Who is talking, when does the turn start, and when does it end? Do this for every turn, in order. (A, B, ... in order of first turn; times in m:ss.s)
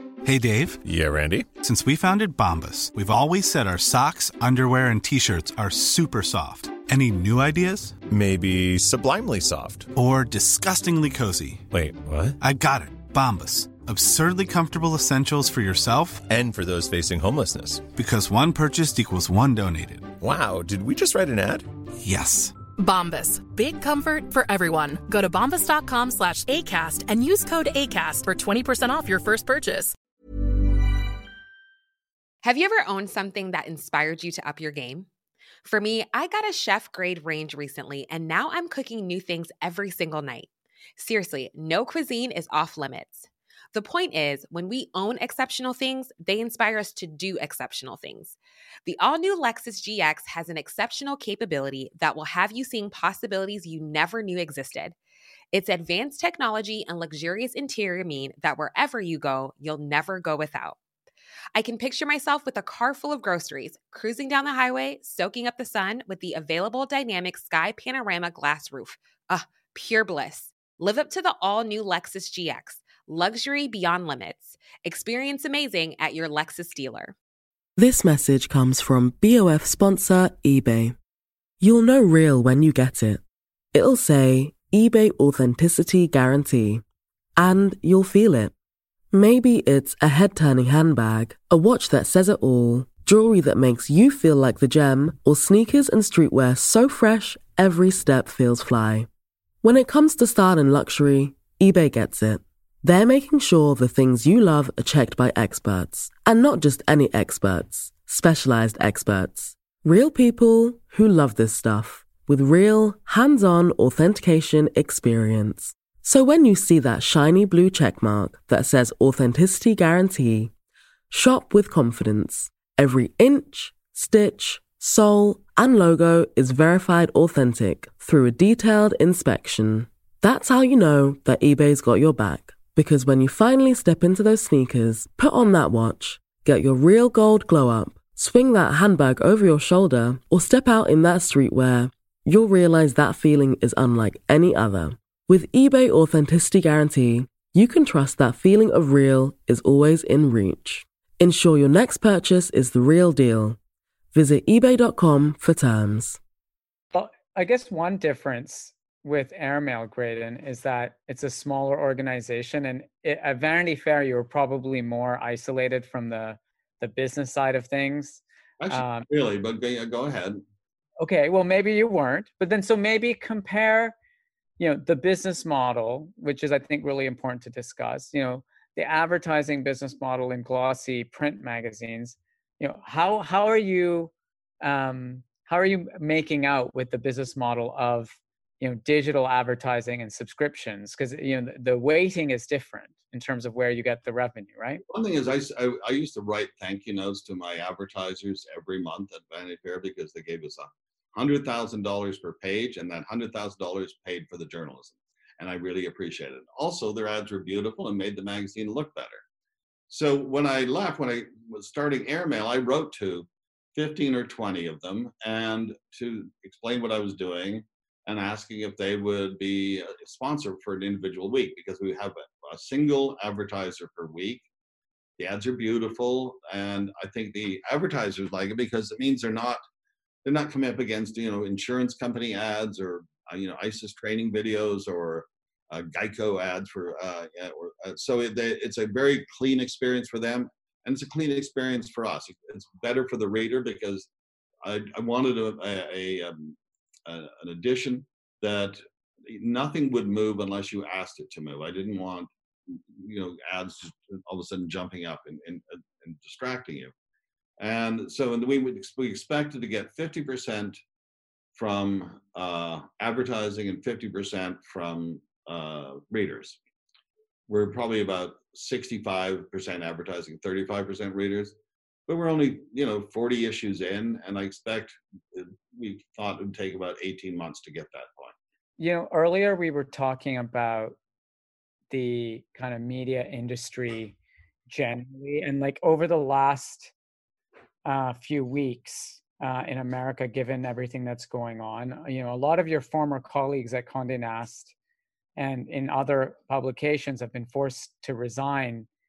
0:00.2-0:00.8 A
0:00.8-0:01.5 B
0:01.6-0:08.0 A
0:08.1-0:09.9 B
0:09.9-0:11.6 A
0:11.7-0:12.4 B
0:12.4-0:16.3 A
0:16.3-0:17.9 B
0:17.9-0:20.2 A
0:20.2-0:21.7 B
0:22.0-0:22.6 A
0:22.8-0:30.0 C
0:32.4-0:35.1 D
0:35.6-0:55.0 D
0:55.5-1:00.8 D
1:01.5-1:17.2 D
1:17.8-1:21.0 E
1:21.6-1:23.2 E
1:23.7-1:26.8 E
1:27.4-1:28.5 E
1:29.1-1:39.1 E
1:39.6-2:00.5 E
2:01.1-2:33.6 E
2:34.1-2:36.2 E
2:36.9-2:49.1 F
2:48.6-2:50.4 G
2:51.0-2:53.9 F
2:54.6-3:14.8 F
3:14.9-3:29.2 G
3:29.9-3:44.5 G
3:45.2-3:49.6 G
3:50.2-4:04.1 G
4:04.6-4:16.9 G
4:17.6-4:20.8 G
4:21.6-4:26.6 G
4:27.5-4:31.6 G
4:32.1-4:38.3 G
4:38.8-4:41.0 F
4:41.9-4:44.2 F
4:44.7-4:46.9 F
4:47.8-4:54.7 F
4:55.4-4:58.9 F